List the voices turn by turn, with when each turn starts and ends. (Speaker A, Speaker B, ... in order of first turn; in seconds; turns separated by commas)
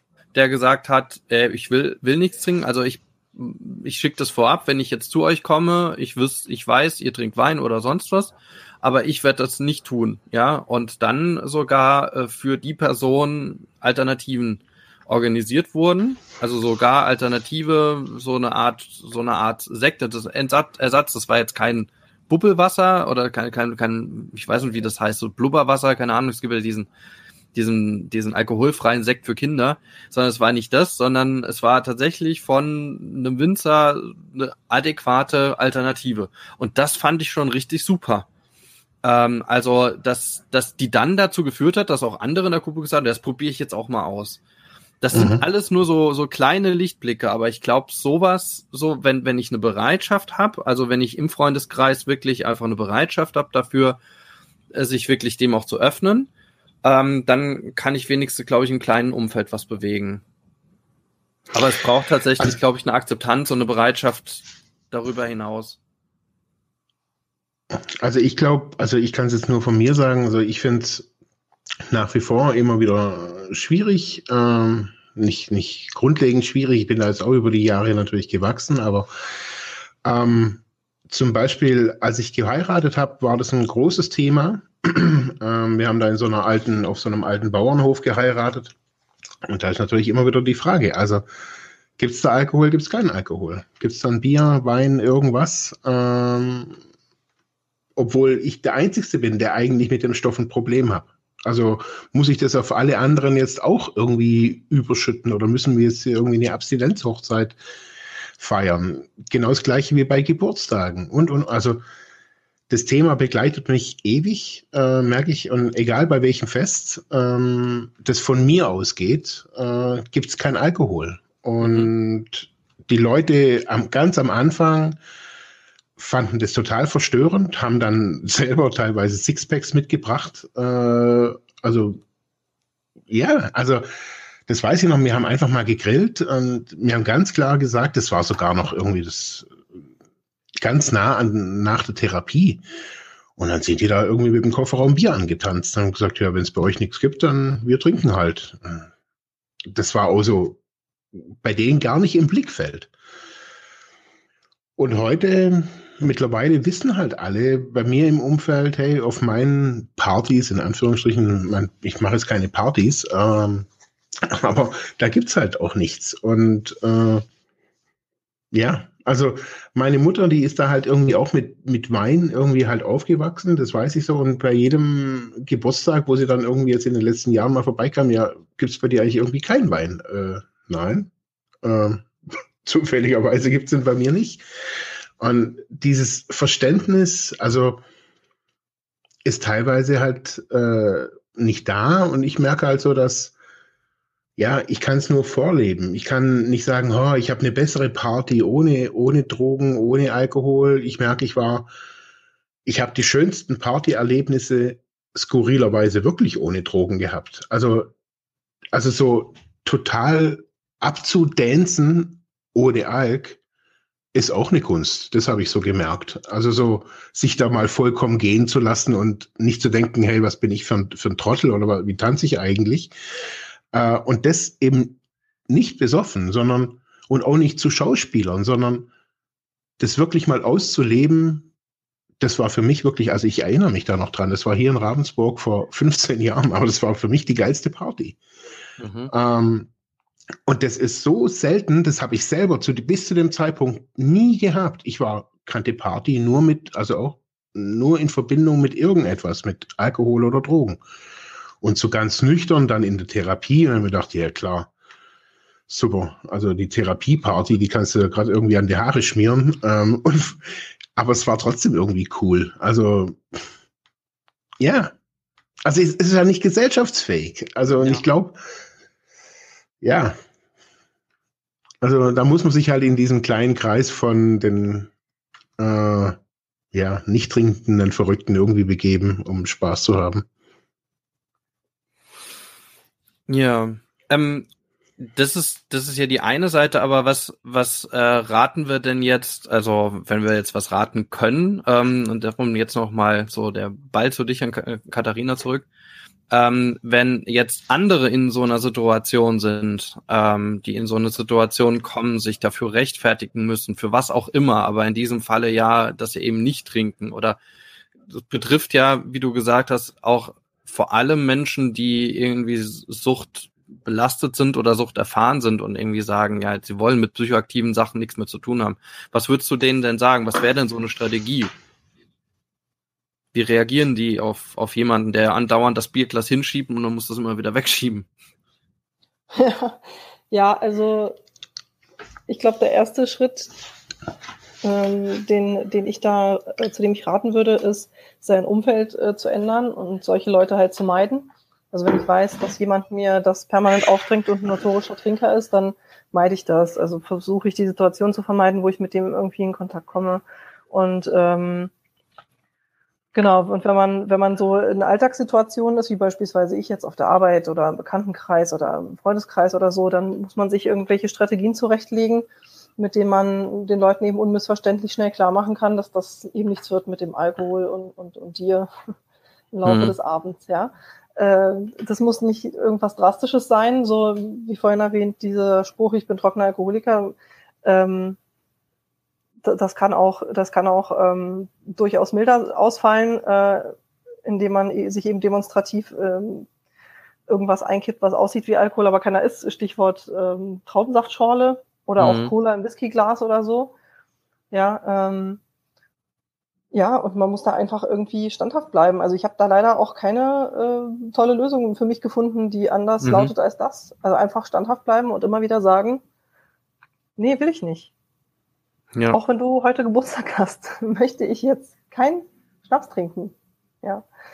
Speaker A: 0.3-26.9, Speaker A: 27.6-38.3, Speaker A: 39.0-44.4, Speaker A: 45.0-54.0, Speaker B: 45.1-45.4, Speaker A: 54.7-56.3, Speaker A: 56.8-60.2, Speaker A: 61.5-65.8, Speaker B: 68.0-71.1, Speaker B: 71.9-79.1, Speaker B: 80.0-88.7, Speaker B: 89.5-91.2, Speaker B: 92.0-96.8, Speaker B: 98.0-107.6, Speaker B: 108.4-111.8, Speaker B: 112.7-125.0, Speaker A: 121.6-121.9, Speaker B: 126.0-132.0, Speaker B: 133.1-133.9, Speaker B: 134.5-139.5, Speaker B: 140.6-142.6, Speaker B: 143.4-148.9, Speaker B: 149.7-150.6, Speaker B: 151.3-152.9, Speaker B: 154.8-163.7, Speaker B: 164.3-167.2, Speaker B: 168.5-181.1, Speaker B: 181.6-182.1, Speaker B: 182.6-184.4, Speaker B: 185.2-187.8, Speaker B: 189.2-193.3, Speaker B: 194.4-201.7, Speaker B: 202.7-207.9, Speaker B: 208.7-213.4, Speaker B: 214.1-222.9, Speaker B: 223.7-228.9, Speaker B: 229.8-231.5, Speaker B: 232.2-238.2, Speaker A: 238.8-239.1, Speaker B: 239.1-239.7, Speaker B: 240.5-250.8, Speaker B: 251.6-254.7, Speaker B: 255.7-263.3, Speaker B: 264.6-264.9, Speaker B: 265.6-268.4, Speaker A: 267.8-268.0, Speaker B: 269.8-270.2, Speaker B: 271.8-274.9, Speaker B: 275.6-276.1, Speaker B: 276.7-280.3, Speaker A: 283.3-295.7, Speaker A: 296.3-307.4, Speaker A: 308.1-321.5, Speaker A: 323.3-328.1, Speaker C: 329.3-331.2, Speaker C: 332.3-333.5, Speaker C: 334.6-351.7, Speaker C: 353.1-362.3, Speaker C: 362.8-368.7, Speaker C: 369.5-378.2, Speaker A: 369.6-369.9, Speaker C: 379.4-383.7, Speaker C: 384.2-386.5, Speaker C: 387.3-393.7, Speaker A: 392.0-392.3, Speaker C: 394.5-395.4, Speaker C: 396.7-406.0, Speaker A: 403.0-403.3, Speaker C: 407.2-407.9, Speaker C: 409.1-414.0